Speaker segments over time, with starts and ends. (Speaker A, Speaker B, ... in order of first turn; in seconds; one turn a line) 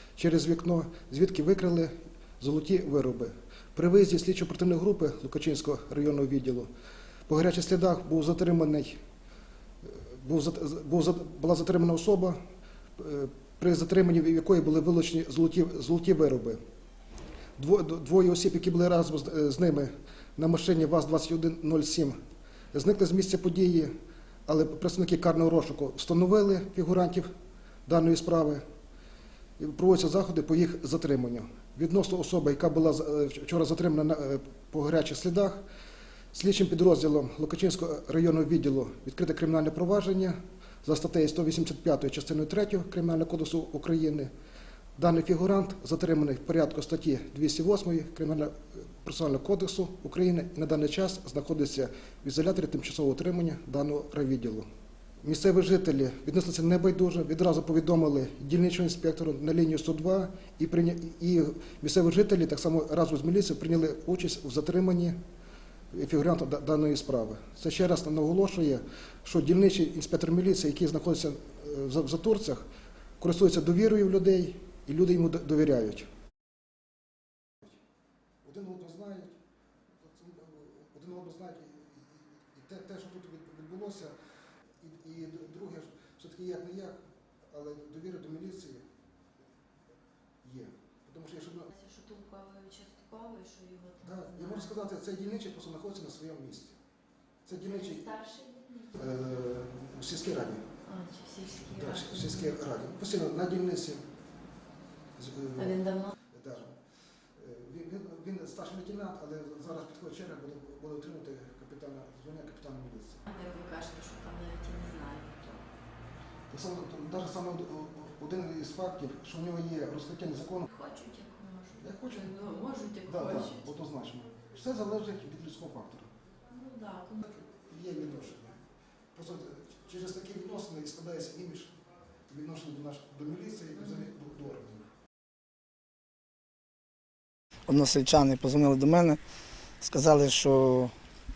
Speaker A: 0.2-6.7
Speaker A: 7.3-9.0
Speaker A: 9.8-12.4
Speaker A: 13.0-16.6
Speaker A: 17.6-22.2
Speaker A: 22.7-23.9
Speaker A: 24.4-27.3
Speaker A: 27.9-28.6
Speaker A: 29.6-35.6
Speaker A: 36.3-44.3
Speaker A: 45.0-54.6
Speaker A: 55.2-65.2
Speaker A: 65.9-72.7
Speaker A: 73.2-76.0
Speaker A: 78.4-79.4
Speaker A: 80.0-84.1
Speaker A: 84.8-88.9
Speaker A: 90.4-91.7
Speaker B: 91.7-94.7
Speaker A: 94.0-96.8
Speaker A: 97.5-98.1
Speaker B: 97.6-98.8
Speaker A: 98.9-100.6
Speaker B: 100.8-102.4
Speaker A: 101.8-104.0
Speaker A: 105.2-106.8
Speaker B: 105.6-106.1
Speaker A: 107.4-113.2
Speaker B: 113.3-115.3
Speaker A: 116.5-120.7
Speaker B: 120.7-123.6
Speaker A: 121.8-122.4
Speaker A: 123.1-126.1
Speaker B: 126.5-127.2
Speaker A: 127.2-128.6
Speaker A: 129.1-131.8
Speaker A: 132.3-134.9
Speaker C: 137.7-139.2
Speaker C: 139.8-140.9